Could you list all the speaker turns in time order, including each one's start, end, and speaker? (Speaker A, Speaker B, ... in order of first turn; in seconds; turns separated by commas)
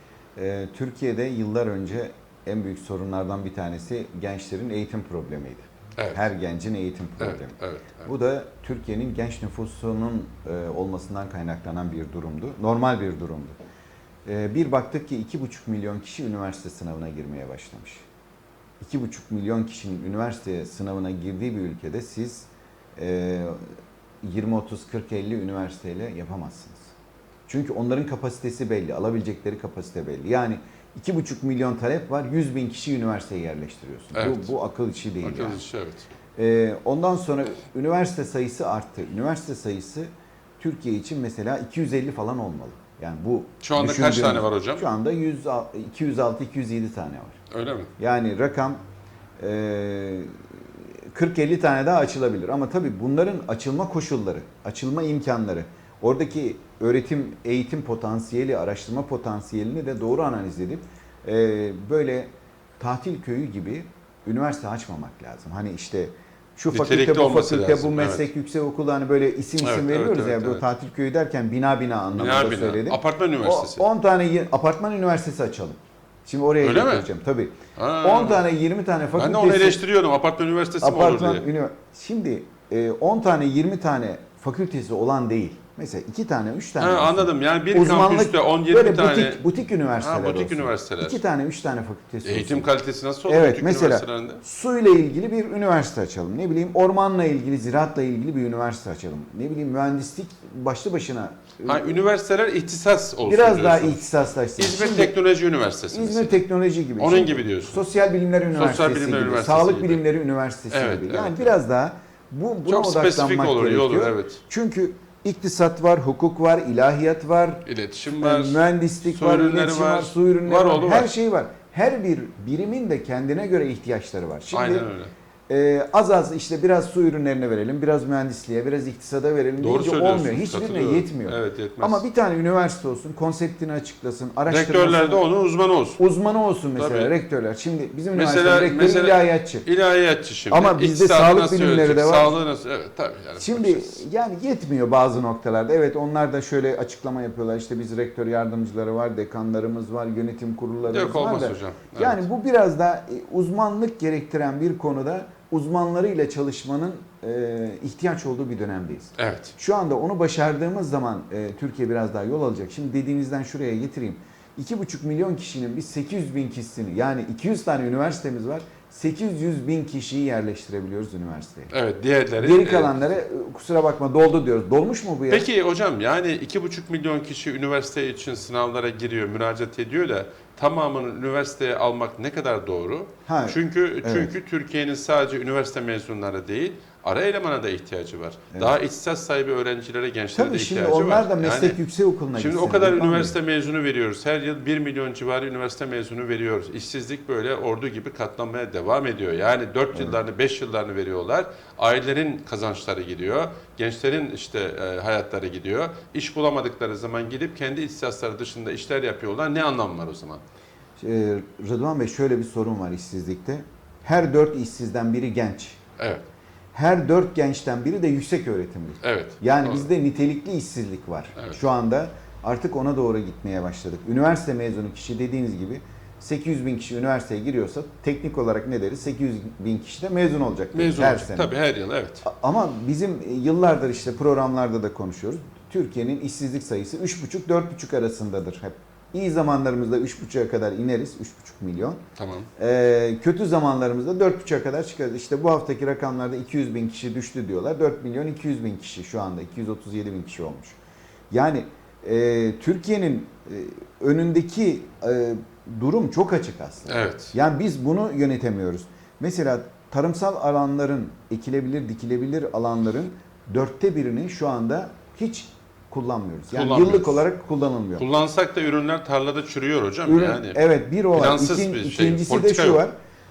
Speaker A: 0.4-13.6, Speaker B: 6.0-6.3, Speaker B: 7.2-8.1, Speaker A: 14.2-18.1, Speaker A: 18.8-23.6, Speaker A: 24.2-26.9, Speaker A: 27.5-35.6, Speaker B: 34.1-34.5, Speaker B: 35.2-36.1, Speaker A: 36.4-47.4, Speaker B: 43.6-44.9, Speaker B: 47.5-47.9, Speaker A: 48.0-48.8, Speaker A: 49.4-50.3, Speaker A: 51.1-79.8, Speaker B: 66.7-68.3, Speaker B: 69.6-70.6, Speaker B: 72.1-73.8, Speaker B: 76.6-77.1, Speaker B: 77.8-78.5, Speaker B: 79.2-81.5, Speaker A: 80.8-92.7, Speaker B: 86.8-91.2, Speaker B: 92.2-94.4, Speaker A: 93.3-102.1, Speaker B: 101.6-106.4, Speaker A: 103.2-105.2, Speaker A: 105.9-124.9, Speaker B: 107.0-107.8, Speaker B: 108.5-110.0, Speaker B: 110.7-111.6, Speaker B: 112.7-114.4, Speaker B: 117.7-121.1, Speaker B: 124.5-125.1, Speaker A: 125.5-135.3, Speaker B: 129.6-132.1, Speaker B: 134.5-136.0, Speaker A: 136.0-139.7, Speaker B: 136.8-137.1, Speaker B: 138.1-144.0, Speaker A: 140.5-142.4, Speaker A: 143.4-171.7, Speaker B: 150.9-152.3, Speaker B: 159.2-159.5, Speaker B: 171.7-173.2, Speaker A: 172.4-175.5, Speaker B: 175.3-191.8, Speaker A: 183.3-184.3, Speaker A: 188.5-188.8, Speaker A: 190.3-193.4, Speaker B: 192.3-210.4, Speaker A: 211.0-215.8, Speaker A: 216.7-231.5, Speaker B: 219.0-219.9, Speaker B: 230.7-232.3, Speaker A: 232.2-242.0, Speaker B: 242.2-242.5, Speaker A: 242.6-250.8, Speaker A: 251.3-268.1, Speaker B: 256.9-257.3, Speaker B: 266.5-267.2, Speaker B: 268.0-270.6, Speaker A: 270.1-272.9, Speaker B: 271.1-272.8